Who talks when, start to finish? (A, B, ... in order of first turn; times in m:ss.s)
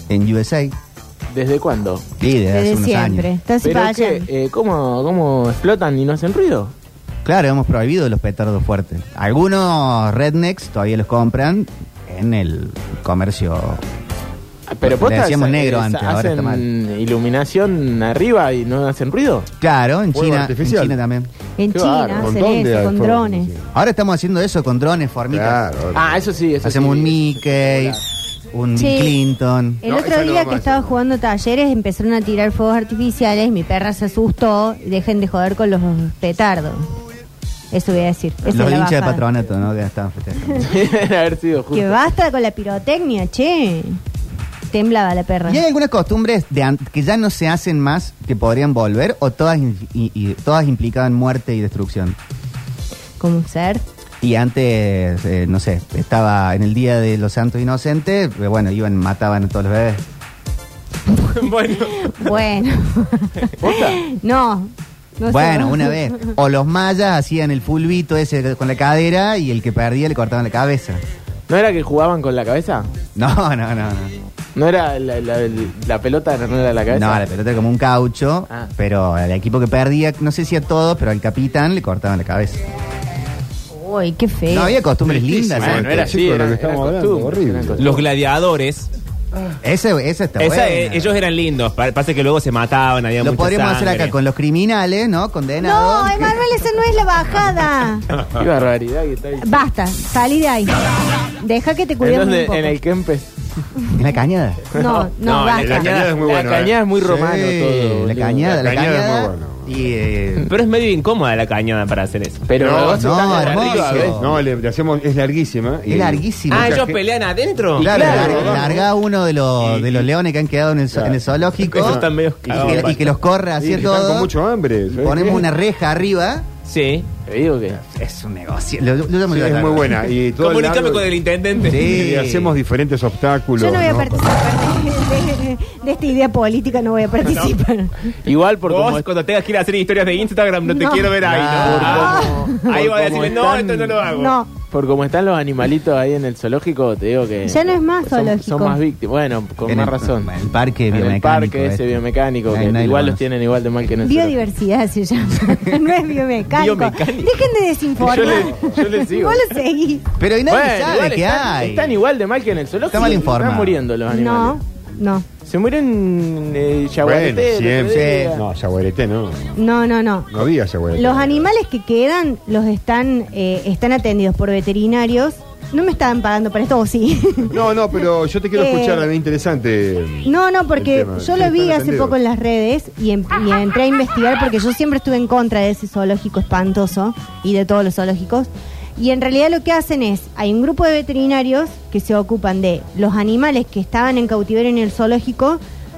0:00.1-0:00.8 A
0:01.3-0:02.0 B
0:02.2-0:03.3 A
0:02.5-0:04.3 C
0:03.6-0:06.7 B
0:07.2-0:13.8 A
0:14.7-0:19.5 B
0:14.8-0:16.6 A
0:19.6-0:21.3 A
0:20.1-0:21.0 D
0:21.6-0:23.5 C
0:21.7-0:22.3 B
0:22.2-0:23.7 D
0:23.7-0:25.6 A
0:25.3-0:26.3 D
0:25.9-0:28.0 B
0:26.6-0:28.0 A
0:28.5-0:29.8 A
0:28.8-0:29.2 C
0:29.8-0:36.9 C
0:29.8-0:31.0 D
0:37.7-0:39.2 C
0:38.5-0:40.7 A
0:40.6-0:42.0 B
0:41.7-0:44.0 C
0:44.7-0:45.6 C
0:45.5-0:52.2 A
0:53.2-0:53.8 C
0:54.2-1:00.0 A
1:01.2-1:02.4 E
1:01.7-1:06.4 C
1:03.6-1:04.0 B
1:05.2-1:11.0 A
1:11.5-1:12.9 B
1:13.2-1:14.1 A
1:14.5-1:17.2 B
1:16.9-1:22.6 A
1:23.7-1:24.8 C
1:24.5-1:26.1 A
1:25.2-1:28.0 B
1:25.5-1:28.0 D
1:27.8-1:28.9 E
1:29.6-1:31.2 A
1:30.4-1:34.1 E
1:33.2-1:36.4 A
1:35.6-1:38.1 C
1:38.4-1:39.6 B
1:39.4-1:42.8 C
1:42.0-1:43.3 B
1:44.0-1:44.7 A
1:44.7-1:45.9 C
1:44.8-1:45.0 B
1:45.2-1:46.2 E
1:45.5-1:47.8 D
1:45.8-1:48.5 B
1:47.7-1:50.5 A
1:48.4-1:49.9 D
1:50.4-1:52.5 E
1:52.5-1:54.2 B
1:52.5-1:57.0 D
1:53.0-1:54.4 A
1:55.9-1:56.8 A
1:56.5-1:58.7 E
1:57.8-1:58.8 B
1:57.8-2:04.3 A
1:57.9-1:58.8 D
1:59.6-2:00.0 E
2:00.9-2:01.2 D
2:01.6-2:03.0 E
2:01.7-2:03.0 D
2:03.6-2:05.5 D
2:04.9-2:06.5 A
2:06.7-2:07.1 E
2:07.2-2:07.8 B
2:07.7-2:10.0 A
2:09.3-2:11.2 D
2:10.4-2:12.0 E
2:11.6-2:12.6 A
2:11.7-2:14.4 D
2:13.6-2:17.9 C
2:18.2-2:19.0 B
2:18.7-2:24.3 E
2:20.7-2:21.1 C
2:21.2-2:22.0 A
2:21.5-2:24.0 B
2:21.9-2:22.7 C
2:23.9-2:24.5 C
2:24.7-2:30.3 B
2:27.4-2:28.8 C
2:29.7-2:32.0 A
2:30.9-2:34.4 B
2:32.5-2:33.2 A
2:34.0-2:40.1 C
2:36.5-2:37.4 E
2:38.0-2:39.5 B
2:38.3-2:38.8 D
2:40.2-2:42.0 A
2:40.5-2:44.6 B
2:42.9-2:43.8 A
2:44.1-2:45.2 C
2:45.4-2:48.4 B
2:47.0-2:49.6 D
2:47.9-2:48.4 A
2:49.5-2:57.6 C
2:50.3-2:51.5 D
2:57.5-3:02.2 D
2:58.5-2:59.1 C
3:00.2-3:15.6 C